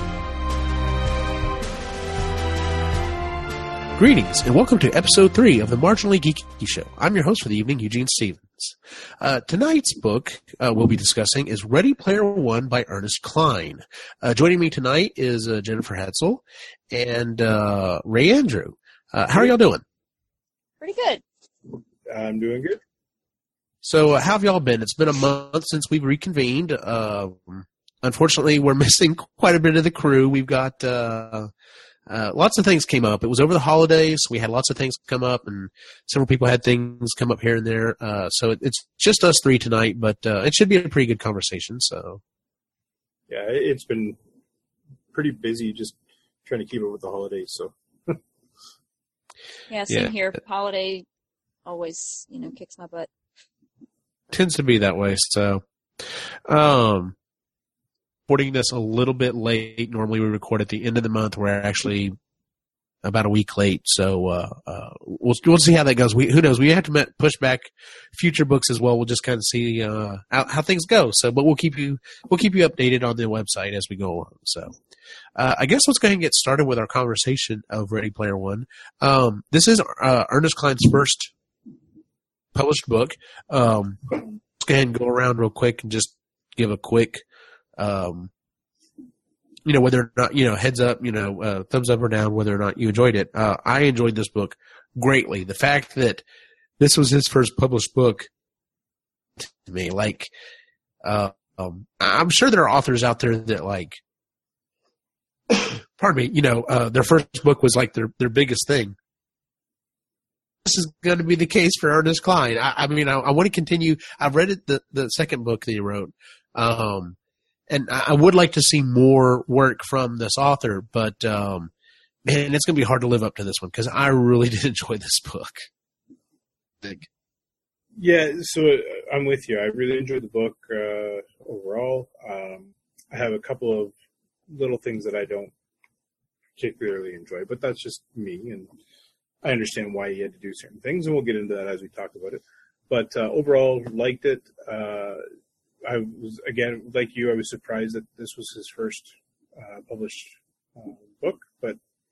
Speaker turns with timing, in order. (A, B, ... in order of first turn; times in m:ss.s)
0:04.0-0:19.8 A
0:20.8-0:21.2 B
0:22.1-0:22.8 C
0:23.8-0:31.5 A
0:32.1-0:42.2 A
0:43.3-0:44.2 C
0:45.1-0:48.2 C
0:49.7-0:51.0 B
0:51.6-0:53.1 B
0:54.3-0:57.2 A
0:58.3-1:02.2 A
1:03.0-1:14.8 A
1:15.4-1:21.3 A
1:22.5-1:24.0 A
1:24.6-1:27.2 A
1:27.8-1:28.3 A
1:29.6-1:36.2 A
1:36.8-1:38.3 A
1:39.4-1:40.3 A
1:41.0-1:44.0 A
1:45.6-1:49.0 A
1:50.6-1:57.2 A
1:57.7-2:01.7 A
2:02.2-2:05.7 A
2:06.8-2:07.1 A
2:08.0-2:13.9 C
2:14.5-2:15.5 C
2:16.6-2:18.7 C
2:19.4-2:25.2 C
2:25.8-2:31.8 C